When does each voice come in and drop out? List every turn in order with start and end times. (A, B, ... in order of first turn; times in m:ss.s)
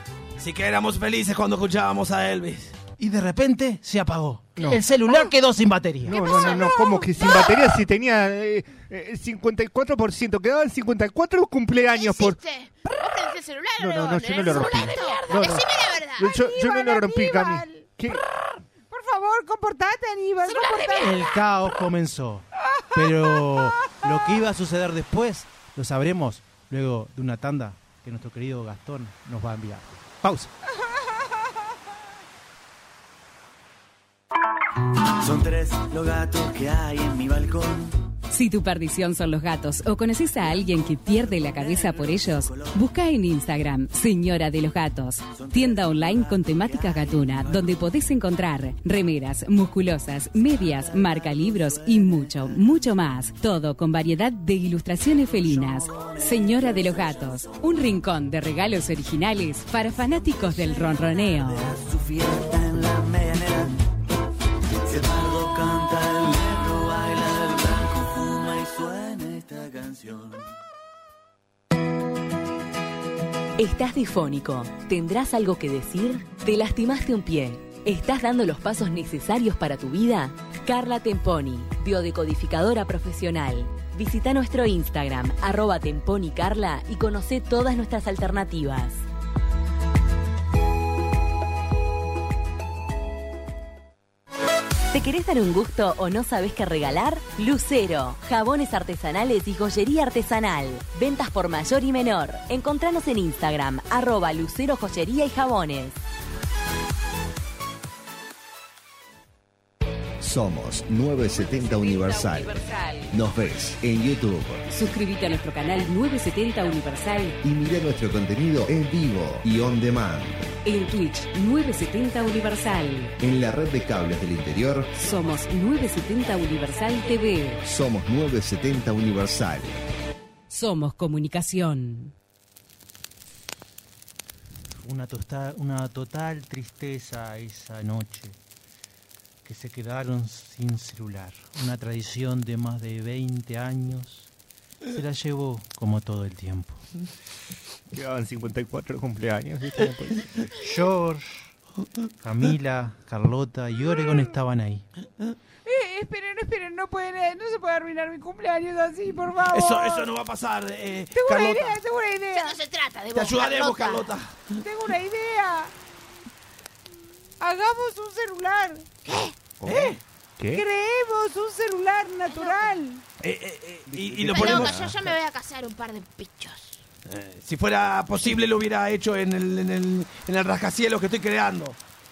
0:00.4-0:02.8 A
0:03.0-0:06.3 B
0:04.6-0:04.8 C
0:06.0-0:12.4 C
0:06.1-0:07.5 D
0:06.3-0:06.7 E
0:11.9-0:16.4 E
0:13.8-0:18.2 C
0:16.3-0:17.9 D
0:18.9-0:21.2 D
0:20.4-0:21.3 E
0:20.9-0:30.5 B
0:22.8-0:23.9 D
0:35.2-0:38.0 F
0:38.3-1:01.7 G
0:40.9-0:42.8 F
0:45.3-0:47.8 F
0:55.4-0:56.7 F
1:01.4-1:03.8 F
1:04.8-1:10.5 F
1:13.6-1:29.0 H
1:34.9-1:46.0 H
1:50.2-1:54.6 I
1:51.3-1:53.2 G
1:54.7-1:57.4 G
1:57.4-2:00.5 I
2:00.6-2:03.1 G
2:03.2-2:05.0 I
2:04.9-2:07.6 G
2:07.6-2:09.8 I
2:10.5-2:12.1 G
2:14.8-2:18.4 B
2:19.4-2:24.3 B
2:24.9-2:26.8 B
2:27.9-2:30.4 C
2:30.6-2:31.5 B
2:32.2-2:34.8 B
2:35.6-2:40.1 D
2:39.5-2:41.8 A
2:41.1-2:42.6 D
2:42.3-2:44.1 E
2:43.1-2:44.5 A
2:44.6-2:45.7 D
2:47.4-2:48.9 D
2:49.0-2:49.3 E
2:49.6-2:50.6 C
2:49.6-2:50.0 A
2:50.5-2:53.0 D
2:52.3-2:52.7 E
2:53.2-2:54.9 A
2:53.9-2:55.1 C
2:54.2-2:56.8 E
2:57.1-3:01.8 A